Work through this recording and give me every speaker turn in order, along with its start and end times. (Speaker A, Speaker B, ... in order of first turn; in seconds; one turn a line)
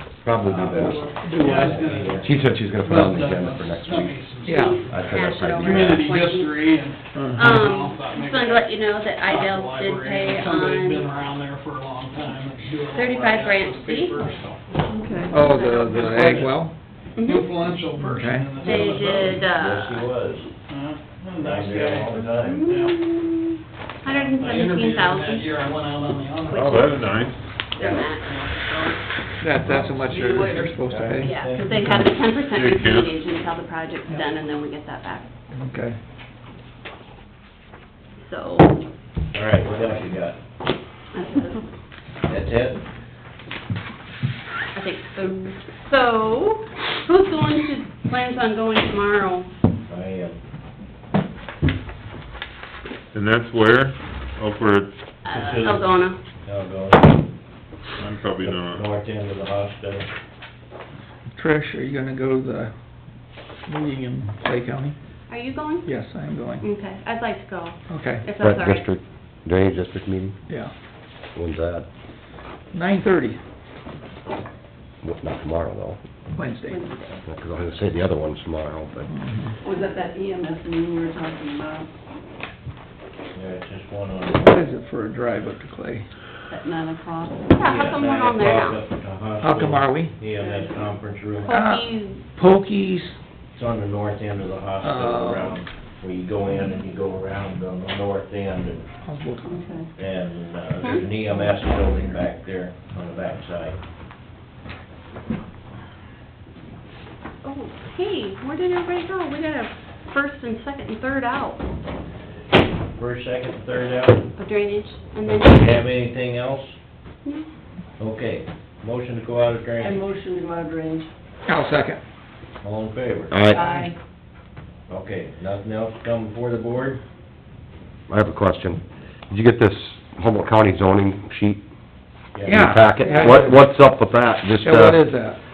Speaker A: 0.2-1.2
Speaker B: 0.4-19.5
Speaker C: 0.8-2.4
Speaker D: 1.1-1.9
Speaker A: 2.2-4.2
Speaker D: 2.9-3.1
Speaker D: 4.4-4.8
Speaker E: 4.5-6.7
Speaker A: 4.9-6.2
Speaker D: 7.1-7.5
Speaker E: 7.3-11.1
Speaker E: 12.9-14.3
Speaker F: 14.9-15.4
Speaker D: 15.3-16.7
Speaker E: 15.4-16.5
Speaker E: 17.1-17.5
Speaker D: 18.0-18.5
Speaker E: 18.6-20.1
Speaker C: 18.6-20.5
Speaker B: 20.7-23.1
Speaker C: 21.4-22.6
Speaker E: 22.4-25.6
Speaker B: 24.0-27.1
Speaker E: 26.5-27.1
Speaker G: 26.5-27.5
Speaker E: 27.8-28.9
Speaker B: 27.8-28.6
Speaker D: 29.4-32.1
Speaker C: 29.6-29.9
Speaker B: 30.1-30.7
Speaker C: 30.8-32.0
Speaker E: 31.2-35.3
Speaker G: 32.5-33.2
Speaker D: 35.5-36.0
Speaker E: 38.2-38.8
Speaker C: 39.3-40.4
Speaker E: 41.1-41.6
Speaker C: 42.2-42.8
Speaker E: 44.7-49.5
Speaker C: 49.9-50.4
Speaker G: 53.1-54.9
Speaker E: 55.2-56.2
Speaker C: 55.3-57.2
Speaker G: 58.0-58.9
Speaker C: 58.4-60.1
Speaker D: 61.4-62.7
Speaker D: 63.7-65.0
Speaker E: 65.3-65.9
Speaker D: 65.8-66.7
Speaker E: 66.6-68.9
Speaker D: 67.9-68.2
Speaker A: 68.4-70.3
Speaker A: 71.3-71.9
Speaker D: 72.7-73.4
Speaker A: 75.0-76.0
Speaker D: 76.3-76.9
Speaker E: 76.7-77.2
Speaker A: 77.2-79.1
Speaker D: 79.1-79.5
Speaker F: 79.6-81.9
Speaker C: 83.3-84.6
Speaker D: 84.3-86.1
Speaker F: 86.5-88.0
Speaker E: 87.5-88.8
Speaker C: 87.6-91.5
Speaker D: 89.4-90.1
Speaker F: 90.4-90.7
Speaker E: 91.4-92.2
Speaker D: 91.5-93.2
Speaker C: 93.5-98.8
Speaker D: 94.8-95.6
Speaker D: 99.0-99.6
Speaker F: 99.4-99.9
Speaker C: 99.9-103.8
Speaker E: 107.4-111.6
Speaker C: 112.9-114.3
Speaker E: 114.3-115.9
Speaker C: 115.2-116.7
Speaker C: 118.0-120.0
Speaker F: 119.8-121.1
Speaker D: 121.5-122.0
Speaker C: 122.6-123.4
Speaker A: 123.3-123.6
Speaker F: 123.5-123.9
Speaker C: 124.9-127.0
Speaker A: 128.1-131.6
Speaker C: 132.3-132.6
Speaker D: 132.4-133.7
Speaker A: 132.4-135.0
Speaker D: 134.6-135.4